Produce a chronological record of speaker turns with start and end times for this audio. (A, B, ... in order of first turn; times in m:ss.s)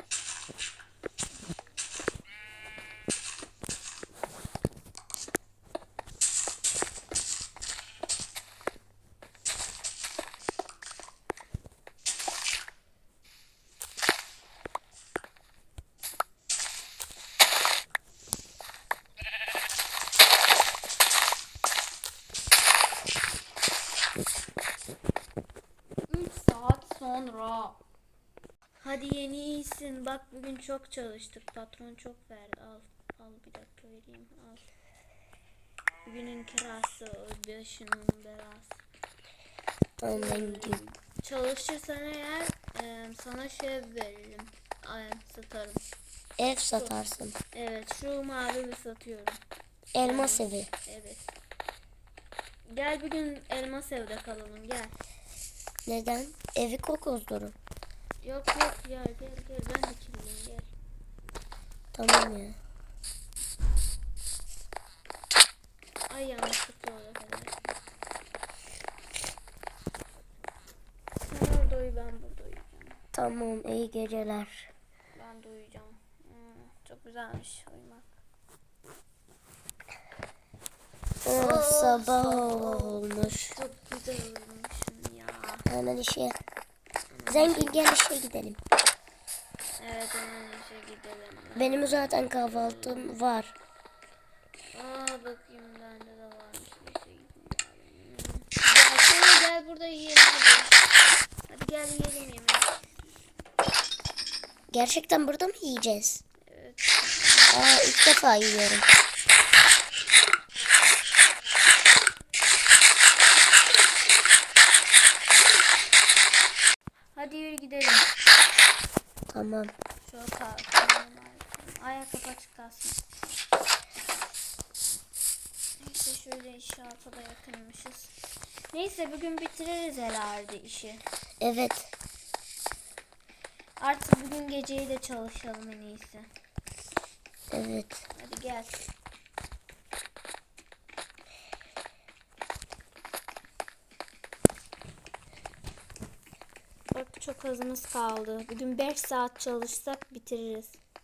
0:26.1-0:27.8 A
0:28.8-0:34.7 A
0:36.0-0:38.8 A
0:40.0-0:40.8 B
0:40.1-0:45.8 A
0:46.4-0:47.4 B
0:47.5-0:49.4 A
0:49.9-0:50.7 B
0:50.0-0:51.2 A
0:52.7-0:54.9 A
0:55.8-0:57.6 B
0:58.2-1:00.7 A
1:01.9-1:02.6 B
1:06.1-1:07.8 A
1:11.2-1:13.0 A
1:13.1-1:14.7 B
1:15.1-1:18.1 A
1:21.2-1:23.6 B
1:21.3-1:25.7 A
1:25.7-1:26.4 B
1:27.1-1:27.9 A
1:27.3-1:28.6 B
1:29.8-1:33.2 A
1:31.6-1:33.5 B
1:34.7-1:40.7 A
1:41.5-1:42.8 A
1:44.7-1:46.2 B
1:46.4-1:47.9 A
1:47.5-1:48.9 B
1:57.1-1:58.1 A
1:59.3-1:59.7 B
2:00.0-2:03.0 A
2:05.8-2:08.1 A
2:08.7-2:11.0 A
2:11.4-2:11.9 B
2:13.8-2:16.3 A
2:17.5-2:18.0 B
2:18.1-2:18.8 A
2:26.9-2:30.8 A